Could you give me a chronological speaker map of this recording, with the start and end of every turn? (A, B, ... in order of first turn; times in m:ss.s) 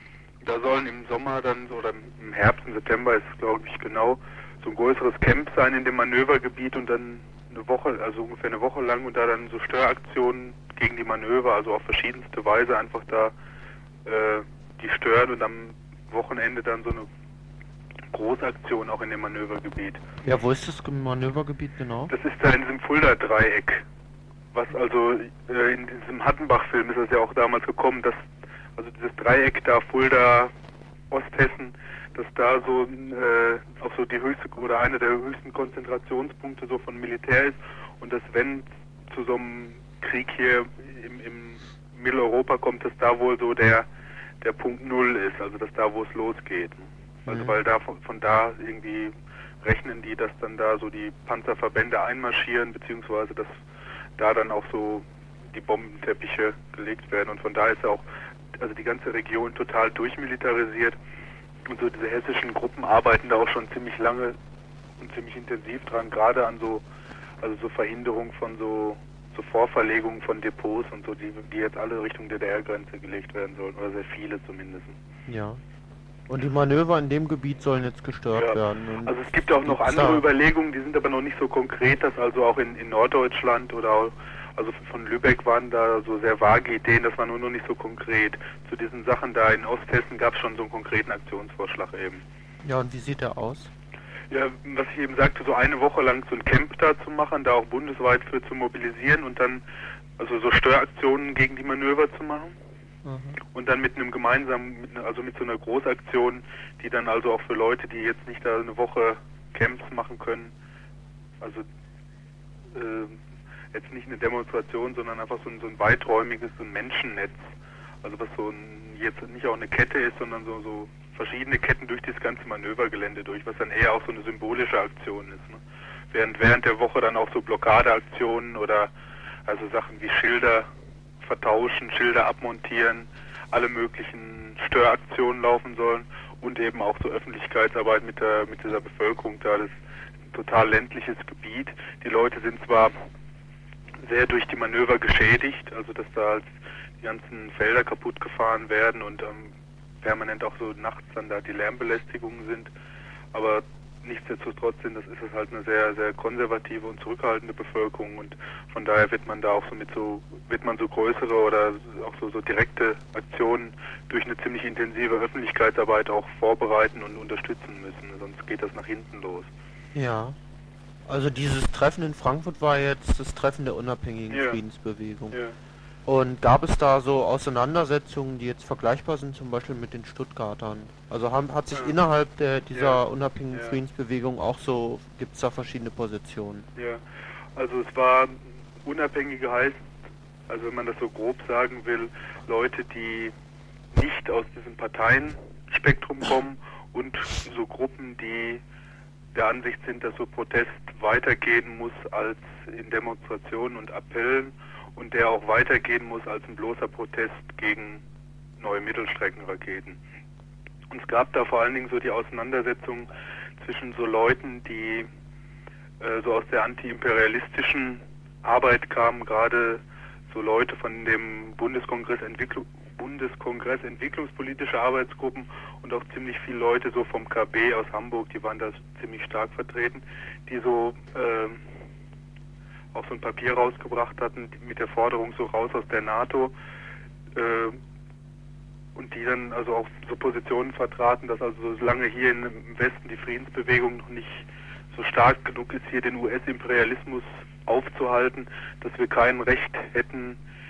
0:00.4-0:13.4 A
0:14.0-0:17.1 A
0:18.1-0:20.0 A
0:20.2-0:22.1 B
0:22.1-0:23.8 A
0:24.5-0:28.2 A
0:28.8-0:30.5 A
0:31.1-0:43.9 A
0:44.4-0:53.6 A
0:47.3-0:47.6 B
0:54.2-0:58.1 A
0:58.6-1:01.0 A
1:01.7-1:04.4 A
1:05.0-1:06.8 A
1:07.4-1:15.0 A
1:15.3-1:15.6 B
1:16.3-1:20.3 B
1:18.4-1:32.2 A
1:32.6-1:33.7 B
1:34.3-1:39.6 A
1:40.2-1:42.5 A
1:43.0-1:43.4 B
1:43.5-1:50.5 A
1:51.4-1:51.7 A
1:52.7-1:53.2 A
1:53.7-2:05.6 A
2:06.1-2:08.9 A
2:09.4-2:10.7 A
2:11.2-2:19.7 A
2:20.3-2:23.0 A
2:24.0-2:32.7 A
2:33.3-2:49.5 A
2:49.9-2:50.4 B
2:51.1-2:55.4 B
2:54.3-2:54.6 A
2:56.1-3:06.7 B
3:02.7-3:03.0 A
3:06.8-3:07.0 A
3:07.6-3:09.9 A
3:10.5-3:13.4 A
3:13.9-3:18.6 A
3:19.3-3:28.0 A
3:28.6-3:30.0 A
3:30.9-3:35.1 A
3:36.0-3:51.6 A
3:52.9-3:56.6 A
3:57.3-3:57.8 A
3:59.0-4:10.4 A